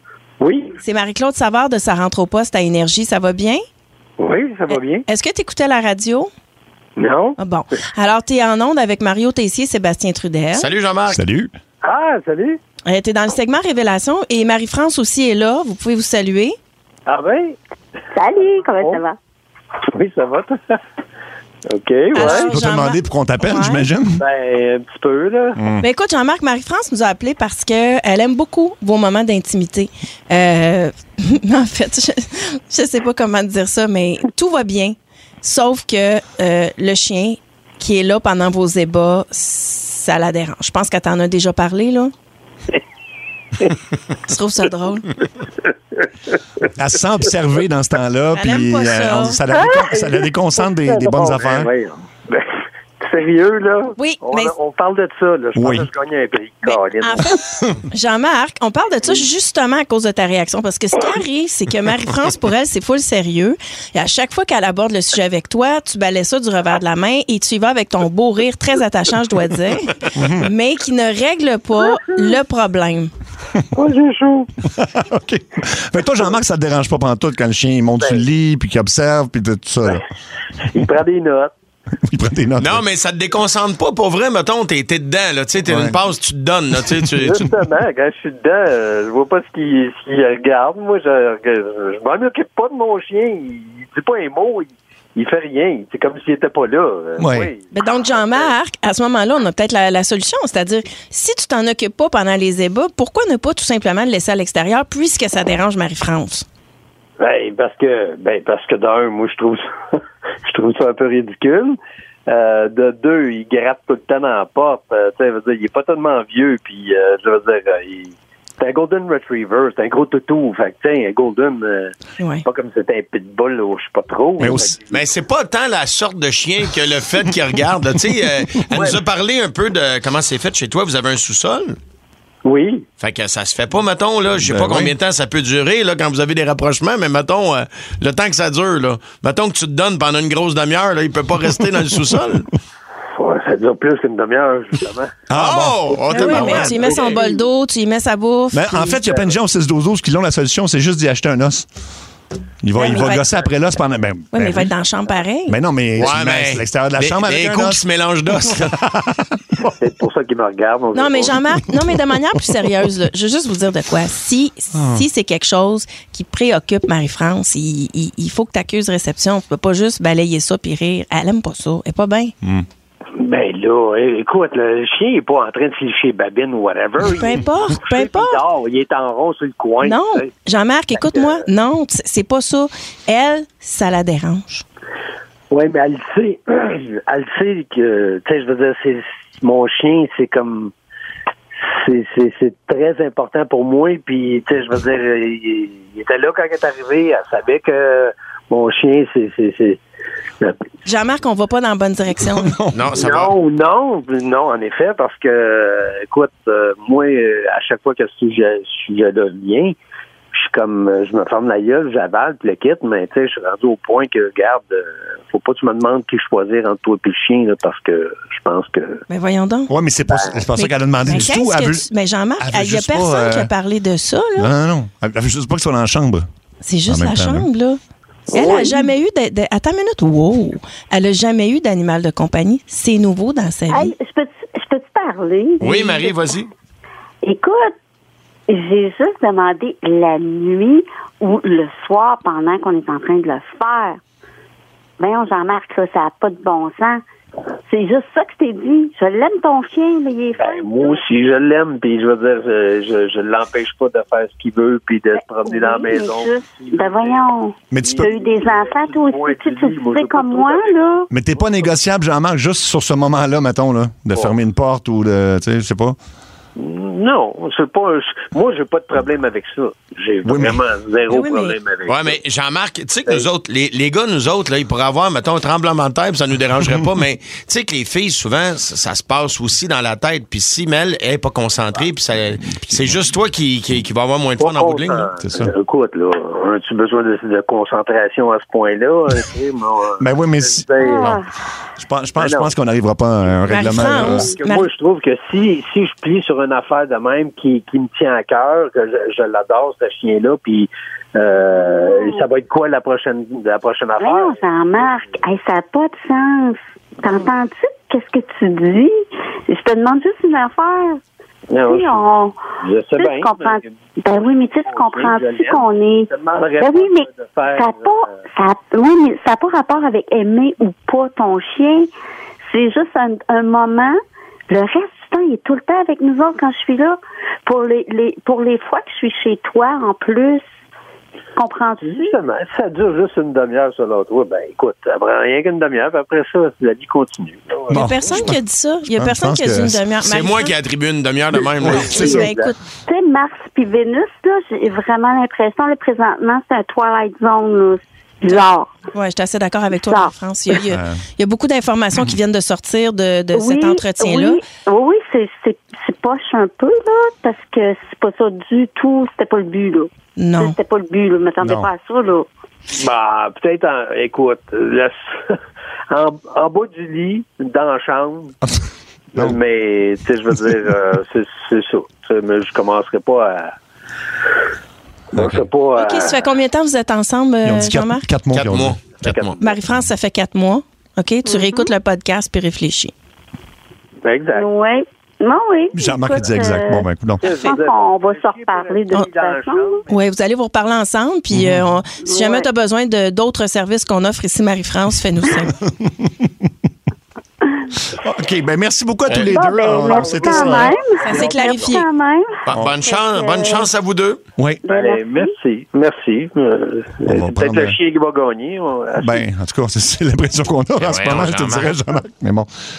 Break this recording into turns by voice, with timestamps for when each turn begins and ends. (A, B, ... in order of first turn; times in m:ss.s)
0:00.4-0:00.7 A
0:00.8-0:03.6 B
0:04.2-0:05.0 A
0:04.7-0:06.3 B
0:07.0-0:07.4 A
0:07.4-0:10.7 B
0:10.5-0:11.2 C
0:11.1-0:11.5 D
0:11.8-0:12.6 A
0:12.8-0:16.6 B
0:17.0-0:17.6 A
0:18.1-0:19.2 E
0:18.6-0:19.0 A
0:19.9-0:20.8 A
0:21.7-0:22.5 A
0:22.1-0:23.9 B
0:22.2-0:24.2 D
0:24.2-0:25.6 A
0:25.6-0:25.8 D
0:25.8-0:42.1 B
0:44.2-0:45.1 B
0:46.8-0:51.7 D
0:48.3-0:49.4 B
0:49.5-0:57.4 A
0:54.0-0:54.5 B
0:55.6-0:55.9 D
0:56.6-1:13.1 B
1:10.2-1:10.5 D
1:13.7-1:14.5 A
1:14.7-1:20.0 D
1:18.0-1:18.2 A
1:20.7-1:21.5 A
1:22.0-1:22.8 D
1:22.6-1:27.4 C
1:25.7-1:26.0 D
1:27.2-1:38.5 A
1:37.2-1:37.5 D
1:37.7-1:46.4 B
1:47.2-2:05.0 A
2:02.2-2:02.4 B
2:04.4-2:04.8 D
2:04.9-2:11.8 C
2:08.7-2:09.0 A
2:12.4-2:12.8 A
2:13.0-2:22.5 C
2:14.4-2:14.9 D
2:23.2-2:25.2 A
2:25.3-2:26.0 D
2:25.3-2:27.2 C
2:26.1-2:27.2 A
2:26.1-2:29.0 B
2:28.5-2:31.7 D
2:32.6-2:34.7 D
2:32.7-2:33.4 B
2:34.3-2:35.6 B
2:35.5-2:37.8 D
2:36.0-2:38.7 C
2:38.4-2:39.7 D
2:39.8-2:41.4 A
2:40.9-2:52.3 B
2:44.7-2:45.0 D
2:53.2-3:00.3 A
2:57.0-2:58.4 B
2:59.8-3:04.6 B
3:01.0-3:01.4 A
3:05.5-3:10.7 A
3:11.6-3:19.8 A
3:20.8-3:22.6 B
3:22.4-3:22.9 D
3:22.7-3:23.3 C
3:22.9-3:29.8 A
3:30.3-3:39.0 A
3:39.1-3:39.7 B
3:39.7-3:41.8 D
3:40.1-3:40.5 A
3:40.6-3:44.5 B
3:42.4-3:43.5 D
3:44.4-3:46.3 D
3:46.6-3:47.8 B
3:46.9-3:47.5 D
3:48.3-3:53.9 B
3:48.4-3:48.6 A
3:53.7-3:56.1 E
3:55.6-3:56.5 C
3:57.2-3:57.7 E
3:58.5-4:04.0 E
4:05.0-4:07.0 E
4:07.7-4:11.0 E
4:10.3-4:17.2 A
4:15.2-4:21.1 E
4:17.7-4:18.1 D
4:17.8-4:21.6 A
4:21.1-4:26.0 D
4:26.6-4:32.2 A
4:30.2-4:30.6 D
4:31.1-4:31.6 B
4:31.9-4:45.1 C
4:42.6-4:42.9 D
4:44.4-4:51.1 A
4:45.2-4:45.5 D
4:50.0-4:51.2 D
4:50.8-4:51.2 E
4:51.8-4:54.3 D
4:52.2-4:52.5 A
4:53.4-5:05.1 A
4:53.5-4:54.7 B
5:01.5-5:02.2 E
5:04.0-5:08.9 E
5:09.5-5:11.0 E
5:11.5-5:12.0 A
5:11.7-5:12.4 E
5:12.6-5:13.7 A
5:13.0-5:21.9 E
5:14.6-5:18.1 A
5:22.5-5:24.0 E
5:24.5-5:30.4 E
5:31.4-5:32.2 E
5:31.8-5:38.2 A
5:37.7-5:40.5 B
5:37.7-5:38.4 D
5:38.9-5:39.8 D
5:40.0-5:42.1 C
5:41.6-5:42.5 A
5:41.8-5:42.5 B
5:42.8-5:48.7 E
5:48.9-5:54.4 B
5:49.7-5:50.1 E
5:50.7-5:51.0 D
5:53.3-6:02.3 E
6:00.2-6:00.6 B
6:01.4-6:01.7 D
6:02.7-6:08.3 A
6:09.1-6:13.5 A
6:15.1-6:16.2 A
6:15.2-6:15.4 D
6:15.8-6:18.0 B
6:17.4-6:19.0 D
6:18.3-6:19.5 C
6:19.4-6:22.9 B
6:21.2-6:21.7 E
6:24.0-6:24.4 A
6:24.3-6:29.8 E
6:25.7-6:27.2 D
6:27.2-6:30.0 A
6:29.9-6:35.6 B
6:31.3-6:31.8 D
6:32.0-6:32.5 E
6:35.7-6:36.3 D
6:37.9-6:40.8 D
6:39.1-6:39.4 C
6:39.2-6:43.7 E
6:39.7-6:41.8 A
6:41.0-6:41.9 B
6:42.4-6:44.2 C
6:44.4-6:44.6 D
6:44.6-6:45.3 E
6:44.7-6:49.2 A
6:47.0-6:47.8 D
6:49.0-6:52.5 D
6:50.8-6:51.7 C